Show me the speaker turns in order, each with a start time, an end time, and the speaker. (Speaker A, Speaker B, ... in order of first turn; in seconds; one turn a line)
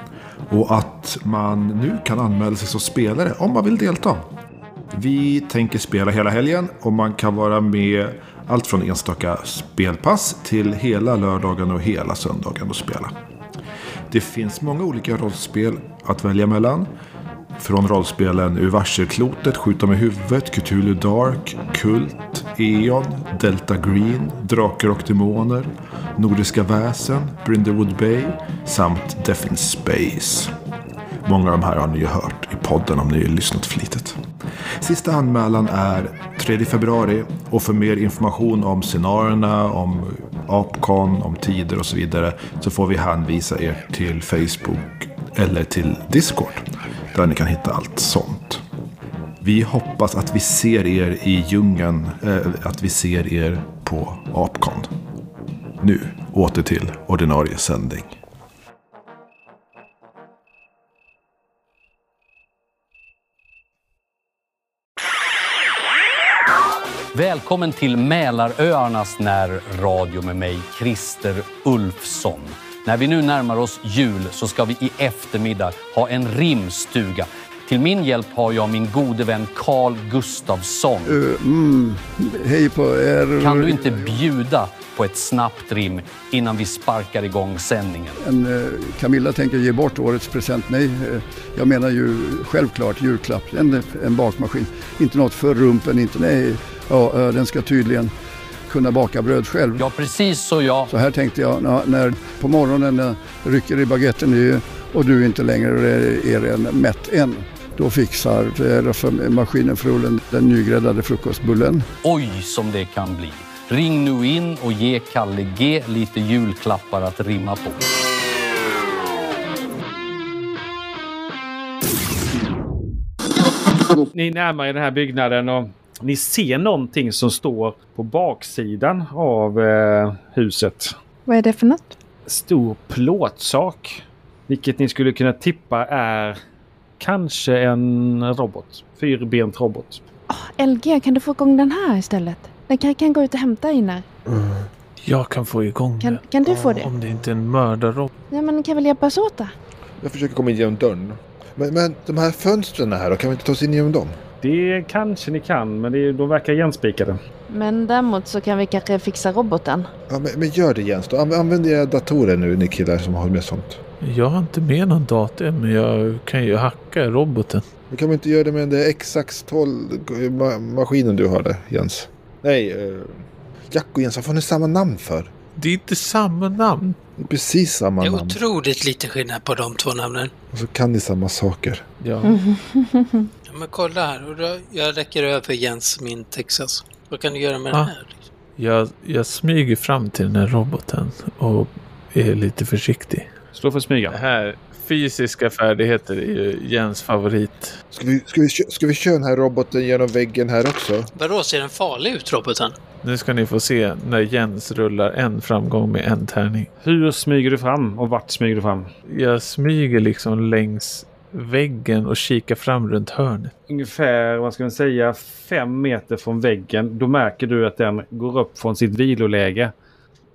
Speaker A: 0.5-4.3
Speaker A: 4.9-13.1
Speaker A: 14.1-16.9
Speaker A: 17.6-30.5
Speaker A: 31.2-34.2
Speaker A: 34.8-48.6
Speaker A: 49.4-54.9
Speaker A: 55.8-58.2
Speaker B: 67.1-81.1
Speaker C: 81.0-84.2
Speaker B: 83.4-88.2
Speaker C: 88.2-98.1
Speaker C: 98.7-99.8
Speaker B: 99.8-100.9
Speaker C: 100.9-111.9
Speaker B: 112.0-117.8
Speaker D: 124.1-130.9
Speaker E: 131.3-131.9
Speaker D: 132.3-136.4
Speaker D: 137.0-140.0
Speaker E: 140.3-144.1
Speaker F: 144.2-144.7
Speaker G: 145.0-146.2
Speaker E: 146.0-146.9
Speaker F: 146.4-147.1
Speaker G: 146.8-148.1
Speaker E: 148.3-149.5
Speaker F: 150.0-154.2
Speaker D: 154.4-157.2
Speaker E: 157.5-159.9
Speaker F: 160.1-163.8
Speaker G: 164.0-167.6
Speaker F: 167.9-175.3
Speaker G: 175.6-177.0
Speaker F: 177.2-178.4
Speaker H: 178.0-180.3
Speaker F: 180.5-181.8
Speaker G: 182.0-182.4
Speaker E: 182.2-183.3
Speaker H: 183.5-188.2
Speaker G: 188.6-193.3
Speaker D: 193.5-194.2
Speaker G: 194.1-197.7
Speaker F: 197.9-201.1
Speaker H: 201.1-202.8
Speaker G: 203.0-206.7
Speaker D: 206.8-208.9
Speaker G: 209.1-213.5
Speaker D: 213.7-219.7